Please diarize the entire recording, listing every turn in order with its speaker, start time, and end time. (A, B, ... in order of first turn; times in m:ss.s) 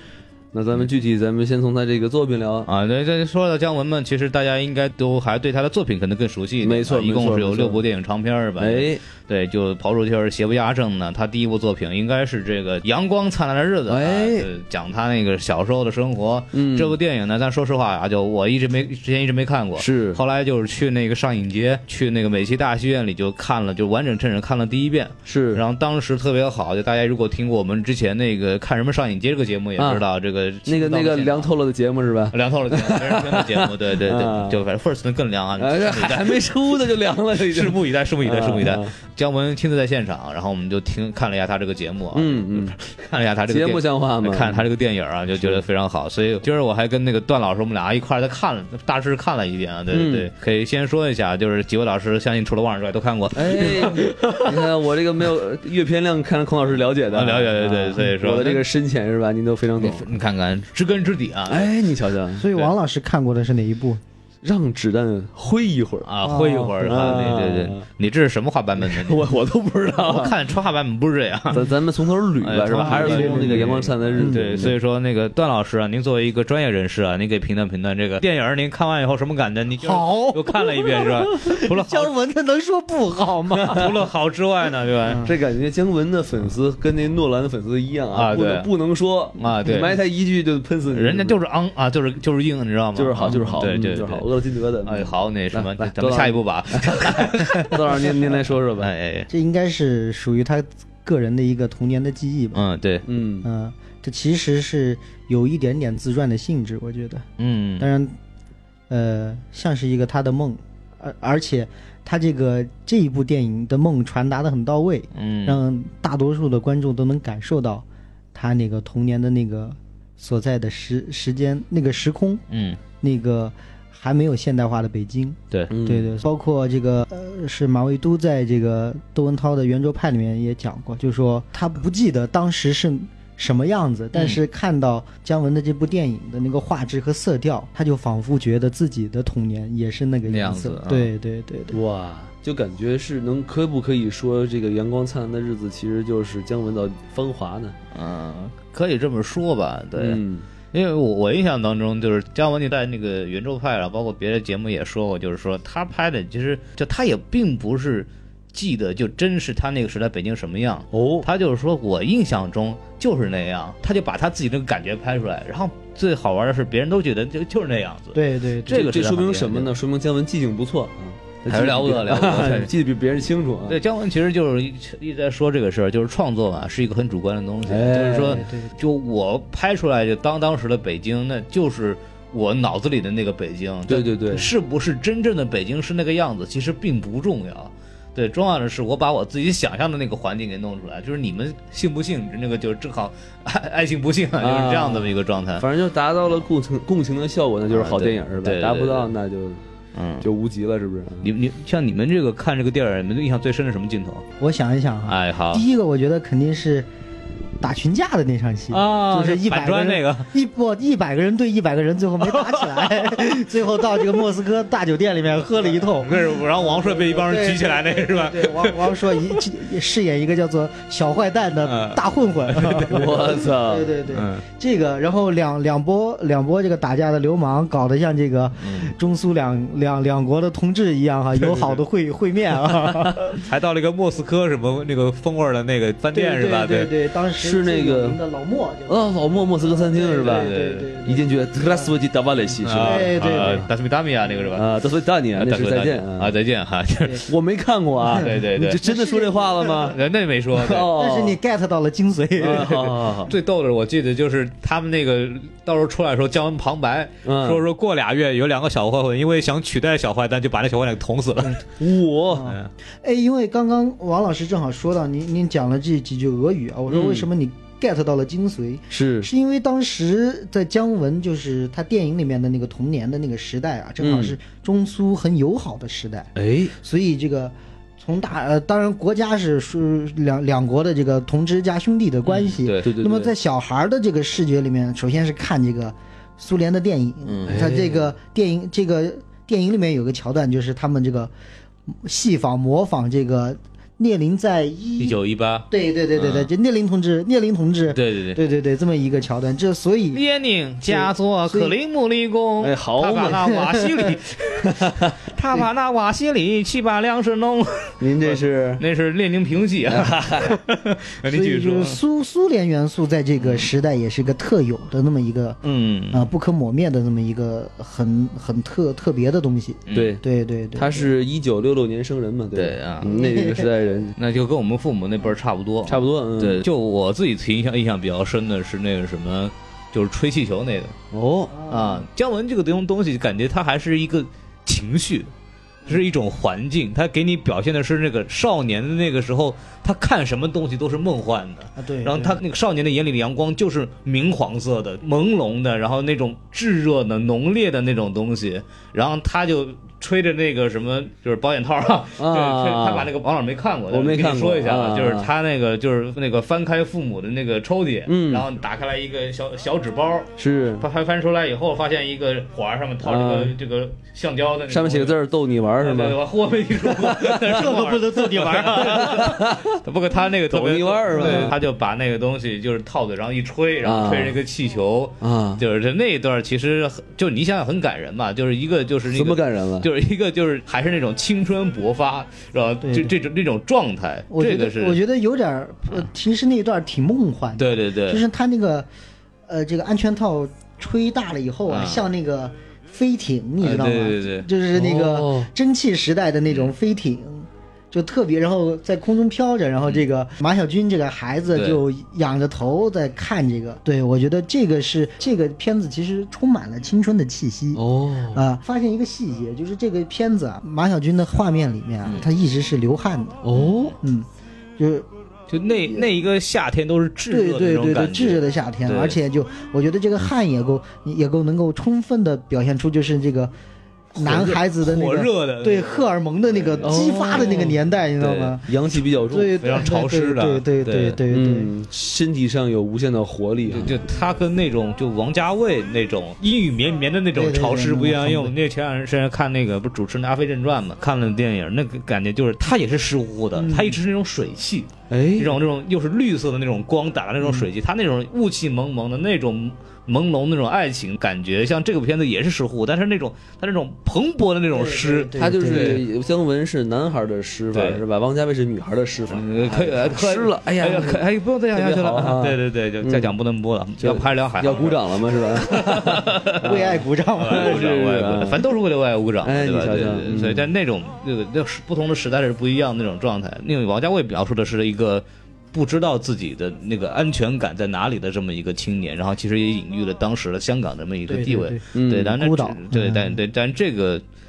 0:00.5-0:02.7 A
0:02.7-0:31.5 B
0:06.6-0:07.8 A
0:08.6-0:09.0 A
0:13.9-0:14.5 A
0:16.5-0:16.9 A
0:19.8-0:20.2 A
0:25.3-0:25.6 A
0:29.8-0:30.0 A
0:30.7-0:34.6 A
0:32.3-0:36.5 B
0:35.6-0:38.9 A
0:37.4-0:54.6 B
0:42.1-0:42.8 A
0:43.5-0:44.6 A
0:49.9-0:50.3 A
0:53.3-1:00.1 A
0:57.1-0:58.7 B
0:59.8-1:01.7 B
1:01.5-1:02.5 A
1:02.4-1:04.0 C
1:04.4-1:06.1 A
1:06.0-1:09.3 B
1:06.2-1:06.8 C
1:06.8-1:07.8 A
1:08.8-1:10.4 A
1:10.0-1:11.6 B
1:11.5-1:14.7 A
1:12.4-1:22.1 B
1:12.7-1:14.6 C
1:19.8-1:24.0 C
1:23.7-1:25.2 B
1:25.1-1:25.3 C
1:25.2-1:31.4 A
1:28.1-1:28.7 B
1:29.4-1:30.0 B
1:30.9-1:34.3 B
1:33.0-1:38.9 A
1:34.8-1:39.3 B
1:39.3-1:42.6 C
1:42.5-1:43.0 B
1:43.1-1:43.5 A
1:43.4-1:47.2 C
1:47.4-1:47.9 B
1:47.8-1:48.2 C
1:48.9-2:02.4 C
1:55.2-1:55.6 B
2:02.5-2:02.8 B
2:03.0-2:21.8 C
2:05.7-2:06.1 A
2:14.1-2:14.4 B
2:20.3-2:21.1 B
2:21.7-2:27.8 A
2:27.9-2:30.2 B
2:30.0-2:30.5 A
2:30.7-2:49.7 B
2:40.9-2:41.3 A
2:48.2-2:48.8 C
2:48.7-2:53.8 A
2:51.5-2:52.7 B
2:53.7-3:15.6 B
2:57.7-2:58.4 A
2:58.2-2:58.7 C
3:03.9-3:04.5 A
3:14.4-3:19.6 A
3:17.7-3:19.1 B
3:20.0-3:20.3 B
3:20.2-3:21.3 A
3:21.2-3:24.2 B
3:24.4-3:26.9 C
3:25.1-3:25.6 B
3:27.6-3:53.4 C
3:28.7-3:30.3 B
3:32.2-3:33.4 B
3:35.8-3:39.4 B
3:41.6-3:43.3 B
3:42.9-3:43.9 A
3:44.1-3:44.4 B
3:48.6-3:48.9 B
3:51.4-3:51.8 B
3:52.7-3:56.9 B
3:56.1-4:01.9 C
3:57.4-3:58.2 A
3:58.9-4:03.6 A
4:00.2-4:00.9 B
4:02.6-4:04.7 B
4:02.8-4:03.6 C
4:04.5-4:06.3 A
4:05.4-4:07.3 B
4:07.2-4:10.0 A
4:08.2-4:08.8 B
4:08.8-4:09.9 C
4:09.8-4:10.9 B
4:10.6-4:11.4 A
4:11.0-4:12.8 C
4:12.4-4:13.3 A
4:12.5-4:21.6 B
4:17.2-4:17.6 A
4:21.8-4:22.5 A
4:22.3-4:51.3 C
4:22.4-4:22.7 B
4:26.9-4:27.3 A
4:28.9-4:29.3 A
4:34.0-4:34.4 A
4:36.4-4:36.7 A
4:42.3-4:42.9 B
4:42.8-4:43.3 A
4:47.2-4:47.7 B
4:47.5-4:48.1 A
4:51.9-4:55.2 C
4:55.0-4:56.5 B
4:55.7-5:00.2 C
4:57.9-4:58.4 B
5:00.1-5:12.0 B
5:00.8-5:01.7 C
5:02.6-5:03.5 A
5:03.3-5:04.1 C
5:04.6-5:05.1 A
5:08.0-5:08.8 A
5:09.9-5:10.6 A
5:11.3-5:15.6 C
5:13.4-5:13.7 B
5:15.6-5:16.3 B
5:16.1-5:21.1 C
5:19.9-5:20.2 B
5:19.9-5:20.2 A
5:20.8-5:24.2 A
5:22.5-5:23.2 B
5:23.1-5:23.7 C
5:24.2-5:31.0 B
5:25.9-5:26.7 A
5:31.1-5:31.6 A
5:31.5-5:32.0 C
5:31.7-5:35.3 B
5:35.9-6:05.2 B
5:41.8-5:42.4 C
5:52.2-5:53.1 A
5:53.9-5:55.3 A
5:58.1-5:58.5 A
6:00.4-6:00.9 A
6:03.0-6:03.6 A
6:04.7-6:06.2 A
6:05.8-6:25.0 B
6:06.8-6:07.5 A
6:07.5-6:09.2 C
6:08.8-6:09.7 A
6:10.5-6:11.6 A
6:11.2-6:11.5 C
6:13.8-6:14.4 A
6:15.2-6:15.6 A
6:19.1-6:19.9 A
6:22.8-6:23.1 C
6:24.3-6:28.9 C
6:27.6-6:28.2 B
6:29.5-6:47.8 C
6:31.7-6:32.0 B
6:33.6-6:34.5 B
6:34.7-6:35.5 A
6:41.5-6:41.8 B
6:47.8-6:48.4 A
6:48.3-6:53.5 C
6:53.4-6:53.9 A
6:53.5-6:53.9 B
6:54.0-6:55.1 C
6:55.5-6:59.2 B
6:57.3-7:03.5 C
7:04.1-7:08.7 C
7:04.2-7:07.7 B
7:06.8-7:09.5 A
7:09.3-7:11.7 C
7:09.6-7:11.2 B
7:11.3-7:14.0 A
7:13.7-7:36.0 B
7:17.4-7:18.5 C
7:23.6-7:24.0 C
7:25.1-7:25.6 A
7:34.7-7:36.0 C
7:35.4-7:43.3 A
7:37.7-7:38.0 B
7:39.3-8:04.2 B
7:44.0-7:48.6 A
7:46.6-7:47.8 C
7:49.4-7:50.7 A
8:01.3-8:03.4 C
8:01.9-8:02.4 A